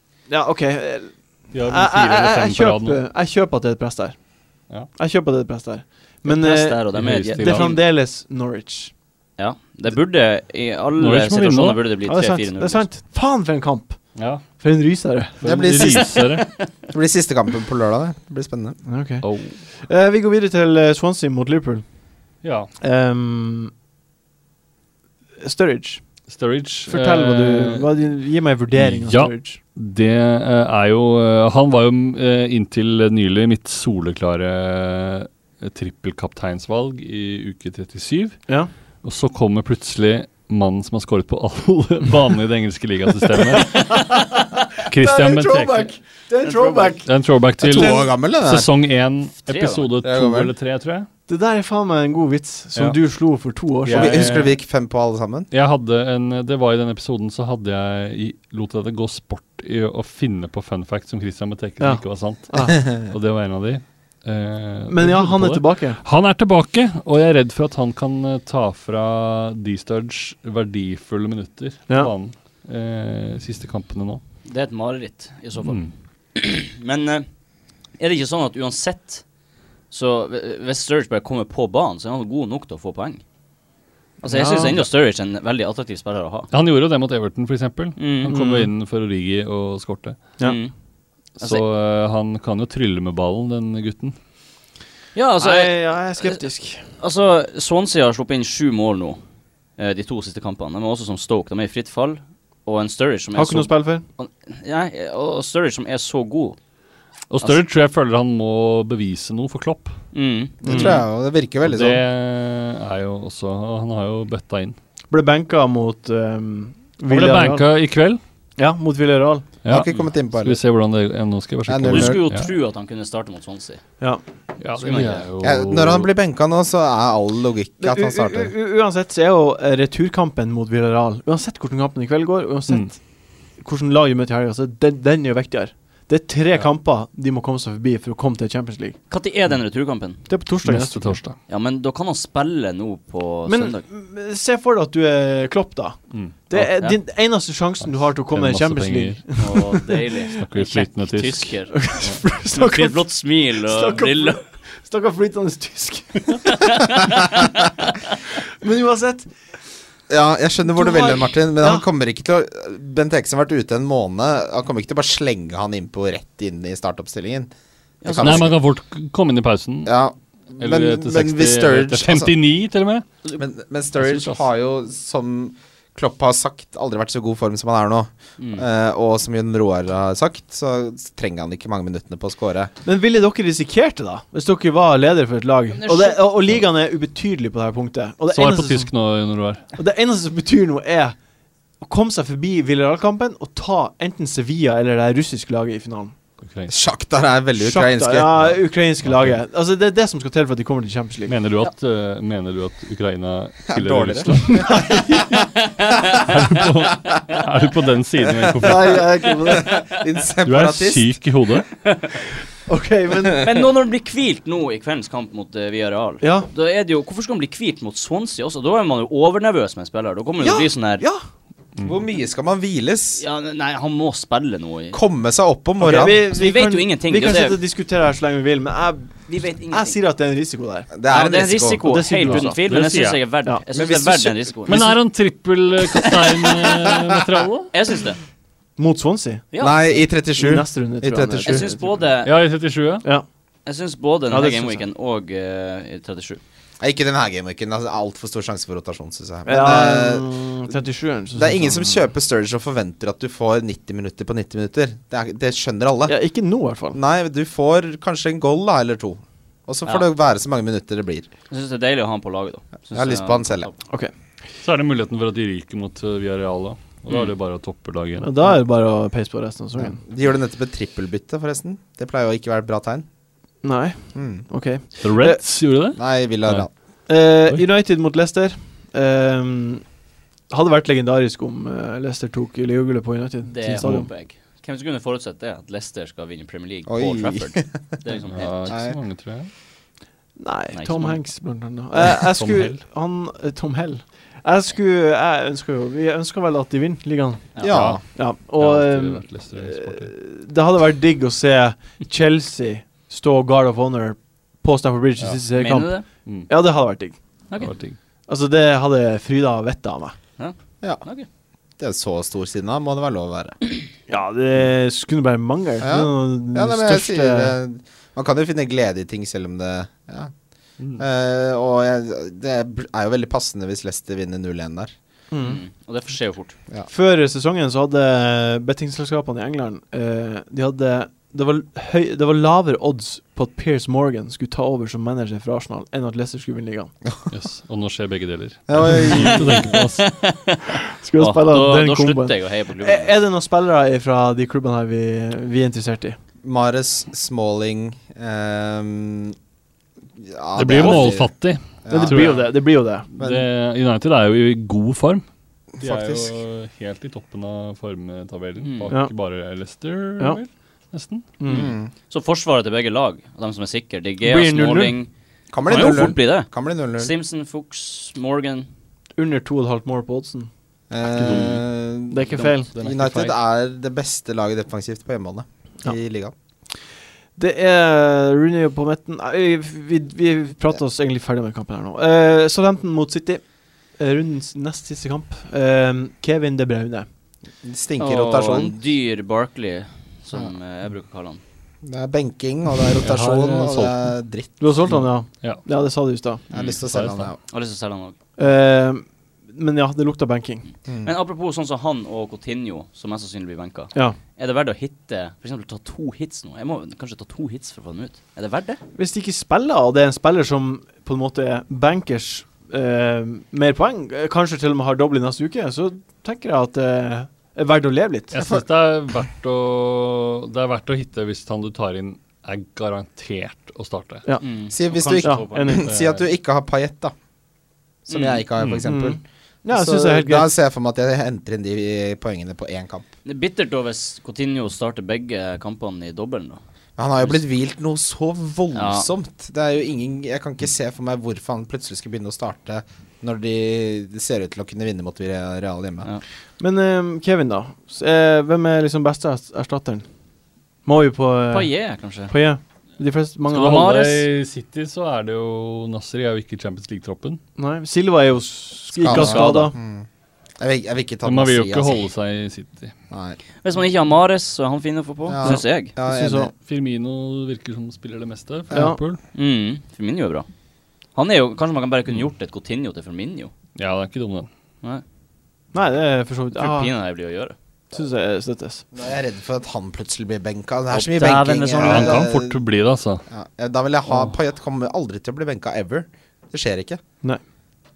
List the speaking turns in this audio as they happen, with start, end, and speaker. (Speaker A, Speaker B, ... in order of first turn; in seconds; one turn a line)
Speaker A: 0.3-4.2
Speaker B: 1.5-3.0
Speaker A: 5.0-8.9
Speaker C: 6.2-7.8
Speaker B: 6.9-7.8
Speaker C: 9.4-12.9
Speaker B: 11.0-11.8
Speaker A: 12.1-15.4
Speaker B: 14.2-14.4
Speaker B: 15.4-16.5
Speaker D: 15.4-16.2
Speaker C: 16.0-16.7
Speaker D: 16.9-18.8
Speaker A: 18.9-21.8
Speaker B: 19.2-19.6
Speaker B: 22.4-22.7
Speaker A: 22.8-23.7
Speaker A: 25.4-26.0
Speaker B: 26.3-27.9
Speaker A: 26.9-29.6
Speaker B: 28.7-38.4
Speaker B: 39.0-44.2
Speaker A: 43.6-44.3
Speaker B: 44.8-45.9
Speaker A: 44.9-47.1
Speaker C: 46.4-47.0
Speaker B: 47.0-51.1
Speaker D: 47.6-48.7
Speaker C: 49.5-49.9
Speaker D: 50.0-50.5
Speaker A: 51.3-54.3
Speaker B: 53.8-54.6
Speaker D: 53.9-55.5
Speaker B: 55.5-74.2
Speaker A: 61.8-62.8
Speaker A: 64.9-66.0
Speaker C: 74.5-75.8
Speaker B: 75.6-75.9
Speaker C: 76.3-77.3
Speaker C: 78.0-79.2
Speaker C: 79.9-83.2
Speaker C: 84.2-86.5
Speaker A: 84.2-84.8
Speaker B: 86.5-90.2
Speaker C: 88.0-88.3
Speaker A: 88.3-88.7
Speaker C: 90.4-90.7
Speaker B: 91.4-94.2
Speaker C: 95.2-96.4
Speaker A: 95.4-96.9
Speaker C: 97.0-99.2
Speaker C: 99.8-106.6
Speaker A: 103.3-104.0
Speaker B: 107.3-110.0
Speaker C: 110.1-111.0
Speaker D: 110.6-112.0
Speaker A: 110.6-111.0
Speaker B: 111.6-114.8
Speaker A: 115.1-117.7
Speaker B: 117.1-118.2
Speaker A: 118.6-119.5
Speaker B: 119.6-122.5
Speaker D: 119.7-120.6
Speaker D: 121.7-122.2
Speaker C: 121.9-123.8
Speaker B: 124.6-126.1
Speaker C: 124.8-125.3
Speaker D: 125.4-128.5
Speaker A: 127.8-133.0
Speaker A: 133.6-139.0
Speaker C: 139.1-140.2
Speaker A: 140.3-141.2
Speaker B: 140.6-141.4
Speaker C: 141.5-143.8
Speaker A: 143.5-150.1
Speaker B: 146.1-146.7
Speaker C: 146.6-147.0
Speaker B: 147.8-149.4
Speaker C: 149.4-151.9
Speaker B: 150.4-152.2
Speaker A: 151.7-157.0
Speaker C: 152.5-154.4
Speaker C: 156.6-157.7
Speaker A: 158.6-159.3
Speaker D: 160.1-167.5
Speaker A: 160.7-161.8
Speaker C: 168.0-168.5
Speaker D: 168.0-168.6
Speaker B: 168.2-169.9
Speaker D: 169.9-172.3
Speaker B: 170.6-173.1
Speaker D: 173.4-182.7
Speaker B: 174.0-174.4
Speaker C: 178.4-178.7
Speaker A: 182.8-188.9
Speaker C: 185.7-186.2
Speaker B: 188.3-189.7
Speaker A: 189.8-191.2
Speaker A: 191.8-196.2
Speaker B: 196.4-196.7
Speaker D: 196.7-198.4
Speaker A: 197.6-201.3
Speaker B: 198.4-199.4
Speaker B: 201.3-204.8
Speaker D: 203.7-204.9
Speaker A: 204.3-205.4
Speaker C: 205.3-206.3
Speaker B: 206.2-209.1
Speaker A: 208.6-209.8
Speaker D: 208.6-208.9
Speaker D: 209.4-211.2
Speaker B: 210.4-211.7
Speaker C: 211.8-212.1
Speaker A: 212.7-213.5
Speaker C: 213.4-221.1
Speaker A: 216.2-216.5
Speaker A: 220.4-221.2
Speaker D: 221.8-223.2
Speaker C: 223.2-225.0
Speaker D: 224.9-226.2
Speaker A: 225.8-230.9
Speaker C: 225.9-227.6
Speaker C: 229.3-230.0
Speaker D: 230.9-231.8
Speaker C: 231.1-234.8
Speaker A: 231.8-232.6
Speaker B: 232.2-233.2
Speaker D: 233.7-234.4
Speaker B: 234.7-237.7
Speaker C: 237.7-238.2
Speaker A: 238.8-239.5
Speaker C: 239.5-239.8
Speaker D: 239.6-241.7
Speaker A: 240.4-241.8
Speaker C: 241.4-242.3
Speaker B: 242.2-243.1
Speaker C: 243.7-246.4
Speaker A: 244.3-244.8
Speaker D: 246.8-250.3
Speaker A: 249.5-252.0
Speaker D: 251.3-256.1
Speaker A: 256.1-257.0
Speaker D: 256.9-261.3
Speaker C: 261.5-263.8
Speaker D: 262.9-263.7
Speaker B: 264.6-268.3
Speaker A: 268.2-270.0
Speaker D: 269.8-273.1
Speaker A: 273.6-275.4
Speaker D: 274.1-274.4
Speaker B: 275.0-276.7
Speaker D: 276.0-276.7
Speaker A: 277.1-279.8
Speaker A: 280.5-284.1
Speaker C: 283.4-288.7
Speaker D: 286.9-288.0
Speaker B: 288.3-289.5
Speaker D: 288.7-289.0
Speaker A: 290.4-297.5
Speaker C: 290.7-291.2
Speaker B: 292.2-292.8
Speaker D: 297.6-298.0
Speaker B: 297.7-300.1
Speaker A: 298.1-306.0
Speaker C: 305.5-306.1
Speaker B: 306.1-306.5
Speaker A: 306.5-307.2
Speaker B: 307.6-308.0
Speaker A: 308.3-310.2
Speaker C: 310.4-311.3
Speaker D: 311.8-313.6
Speaker A: 314.1-317.6
Speaker D: 315.8-320.3
Speaker D: 321.0-324.9
Speaker A: 325.3-325.6
Speaker C: 325.4-326.6
Speaker A: 326.9-336.9
Speaker B: 337.3-340.1
Speaker D: 338.7-339.6
Speaker C: 339.1-343.2
Speaker A: 341.0-346.2
Speaker D: 346.4-349.4
Speaker D: 350.2-351.3
Speaker B: 350.6-352.5
Speaker D: 351.8-352.4
Speaker A: 351.9-353.1
Speaker B: 353.1-355.2
Speaker D: 353.2-353.4
Speaker D: 355.8-356.3
Speaker B: 355.8-361.2
Speaker C: 358.6-358.9
Speaker A: 361.4-361.7
Speaker C: 361.4-365.1
Speaker D: 361.5-361.9
Speaker A: 364.2-365.0
Speaker D: 365.5-367.1
Speaker C: 365.6-368.7
Speaker A: 369.2-370.5
Speaker D: 370.9-376.3
Speaker C: 371.2-371.6
Speaker A: 372.1-372.7
Speaker B: 372.7-373.3
Speaker A: 377.4-383.4
Speaker A: 384.0-387.1
Speaker D: 387.6-388.8
Speaker C: 388.0-391.4
Speaker D: 391.8-394.8
Speaker B: 393.0-394.1
Speaker A: 394.6-396.4
Speaker B: 394.9-395.6
Speaker D: 396.5-397.4
Speaker C: 396.5-396.8
Speaker B: 396.9-397.3
Speaker C: 397.5-398.2
Speaker A: 398.4-400.7
Speaker C: 401.0-408.8
Speaker A: 408.9-418.3
Speaker B: 418.3-424.2
Speaker C: 424.4-425.8
Speaker D: 424.7-427.1
Speaker A: 425.2-425.9
Speaker B: 425.9-426.2
Speaker D: 428.1-433.1
Speaker C: 428.1-428.4
Speaker B: 428.6-428.9
Speaker A: 428.8-430.5
Speaker C: 433.2-436.6
Speaker D: 437.0-446.1
Speaker C: 438.7-439.1
Speaker A: 446.6-450.1
Speaker A: 450.9-451.7
Speaker C: 451.5-452.3
Speaker A: 452.3-454.0
Speaker B: 453.5-457.4
Speaker C: 453.6-454.3
Speaker A: 457.6-459.8
Speaker C: 459.0-459.7
Speaker D: 459.0-460.1
Speaker D: 460.6-462.0
Speaker B: 461.2-462.9
Speaker D: 463.1-463.4
Speaker C: 463.6-465.9
Speaker D: 465.3-466.5
Speaker A: 465.4-466.5
Speaker B: 466.6-469.2
Speaker A: 468.7-469.0
Speaker C: 469.3-470.5
Speaker C: 471.1-473.5
Speaker B: 473.8-474.5
Speaker A: 475.7-476.9
Speaker C: 476.6-477.6
Speaker A: 477.9-478.8
Speaker D: 478.9-482.6
Speaker C: 480.9-482.3
Speaker B: 481.8-483.2
Speaker D: 483.3-487.0